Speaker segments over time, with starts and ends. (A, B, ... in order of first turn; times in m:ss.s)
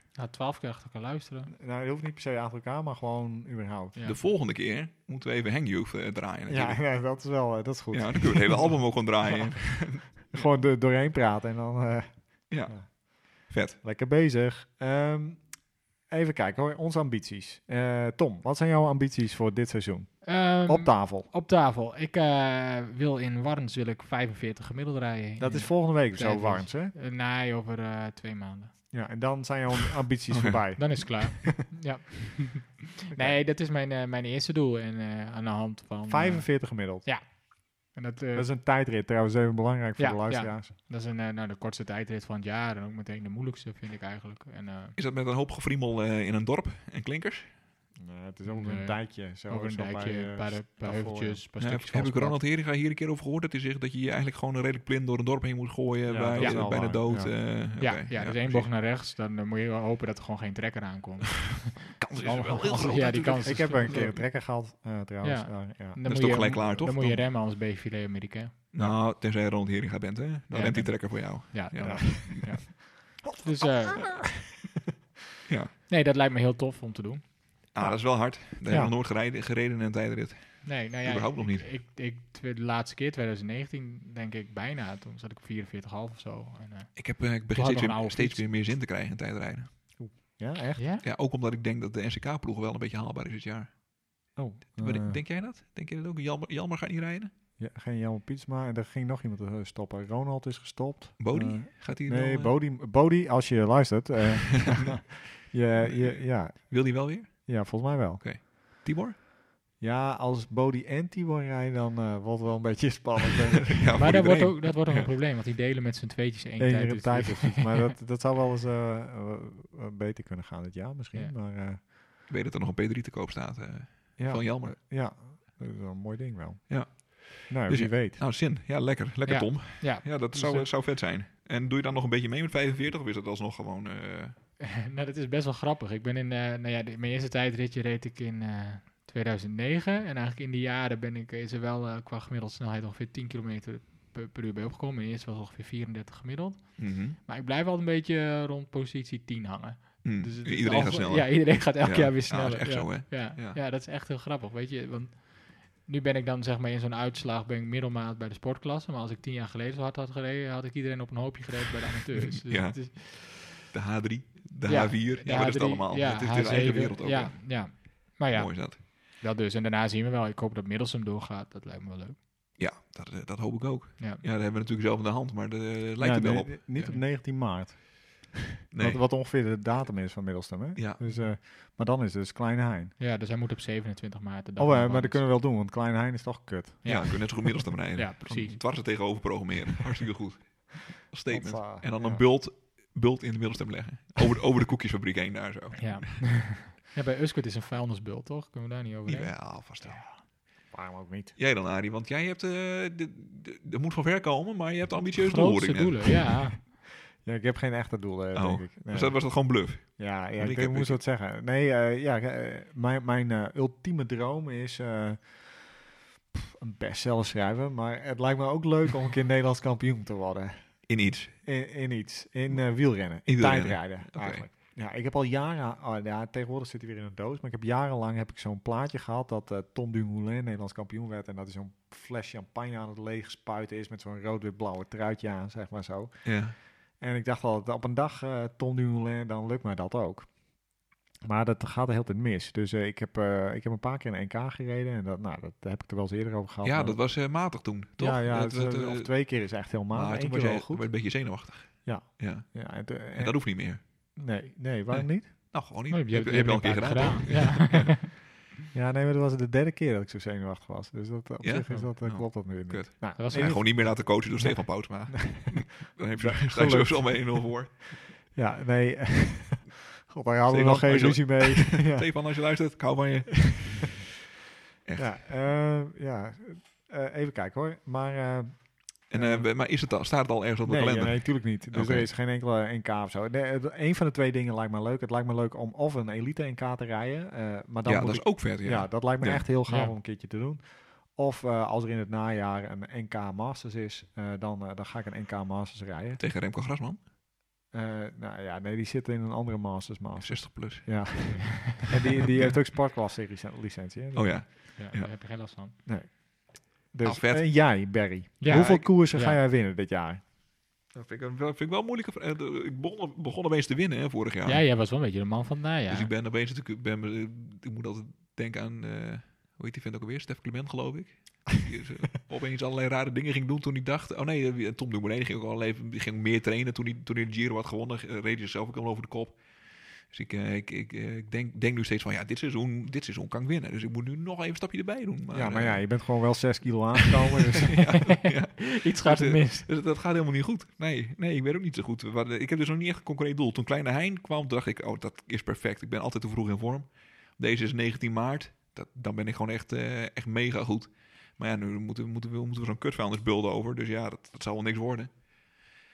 0:00.2-0:01.5 A
0:01.5-0:04.0 B
0:03.9-0:04.2 A
0:04.0-0:07.0 C
0:06.5-0:21.3 B
0:07.9-0:10.5 C
0:12.5-0:13.8 C
0:20.2-0:28.9 A
0:25.4-0:26.9 B
0:28.9-0:31.0 B
0:30.3-0:31.5 C
0:30.8-0:38.5 A
0:33.1-0:33.4 B
0:36.1-0:37.1 B
0:38.3-0:40.7 B
0:40.0-0:45.0 A
0:45.0-0:47.5 C
0:48.0-0:51.4 B
0:48.4-0:52.4 A
0:51.6-0:58.7 C
0:56.0-0:57.3 B
0:56.4-0:56.7 A
0:57.8-1:04.4 A
1:02.0-1:04.2 C
1:03.4-1:06.0 B
1:05.2-1:08.6 A
1:06.0-1:07.2 C
1:08.7-1:12.5 C
1:10.5-1:14.4 A
1:11.8-1:12.7 B
1:13.2-1:14.5 B
1:15.5-1:15.7 C
1:15.9-1:17.3 A
1:17.7-1:21.7 C
1:17.8-1:18.9 B
1:20.6-1:28.4 A
1:27.0-1:30.3 C
1:30.0-1:30.8 B
1:30.8-1:31.0 A
1:31.0-1:33.8 C
1:34.4-1:35.2 B
1:34.8-1:37.3 C
1:37.6-1:48.8 B
1:41.2-1:42.6 C
1:44.7-1:45.0 C
1:45.8-1:49.2 C
1:49.8-1:54.2 B
1:53.7-1:54.8 C
1:54.0-1:57.9 A
1:56.6-2:01.8 B
2:02.3-2:04.8 C
2:04.2-2:08.2 B
2:06.7-2:14.4 C
2:09.2-2:10.7 A
2:14.6-2:43.2 A
2:26.8-2:27.2 C
2:30.0-2:33.6 C
2:42.2-2:48.8 C
2:44.6-2:52.2 A
2:52.6-2:56.8 C
2:56.0-3:02.9 B
2:58.7-2:59.0 C
3:00.8-3:01.0 C
3:03.0-3:05.2 A
3:04.6-3:07.3 B
3:06.8-3:08.6 A
3:06.8-3:16.3 C
3:11.3-3:12.2 B
3:15.8-3:20.0 A
3:19.0-3:20.2 C
3:20.7-3:21.3 B
3:21.4-3:26.4 C
3:25.2-3:26.6 A
3:27.2-3:40.8 B
3:28.3-3:31.0 C
3:40.9-3:41.4 C
3:41.4-4:00.4 B
3:42.5-3:44.4 C
3:56.2-3:56.5 C
4:01.2-4:07.2 B
4:06.6-4:14.2 C
4:08.0-4:11.3 B
4:11.8-4:15.5 B
4:14.9-4:18.0 C
4:15.9-4:18.1 A
4:18.7-4:27.7 B
4:21.4-4:28.0 C
4:23.2-4:23.6 A
4:28.3-4:32.2 B
4:30.5-4:34.0 C
4:34.8-4:35.2 C
4:35.0-4:39.5 B
4:39.1-4:42.1 C
4:40.6-4:56.2 B
4:47.8-4:49.4 C
4:49.7-4:49.9 A
4:56.2-4:57.0 C
4:57.7-5:04.7 B
5:00.2-5:02.6 C
5:04.1-5:05.1 C
5:04.8-5:05.7 A
5:05.8-5:10.2 B
5:07.0-5:08.9 C
5:08.4-5:09.4 A
5:10.9-5:14.6 C
5:14.4-5:16.1 A
5:15.9-5:36.0 C
5:35.3-5:38.1 B
5:37.0-5:55.6 C
5:37.9-5:39.7 A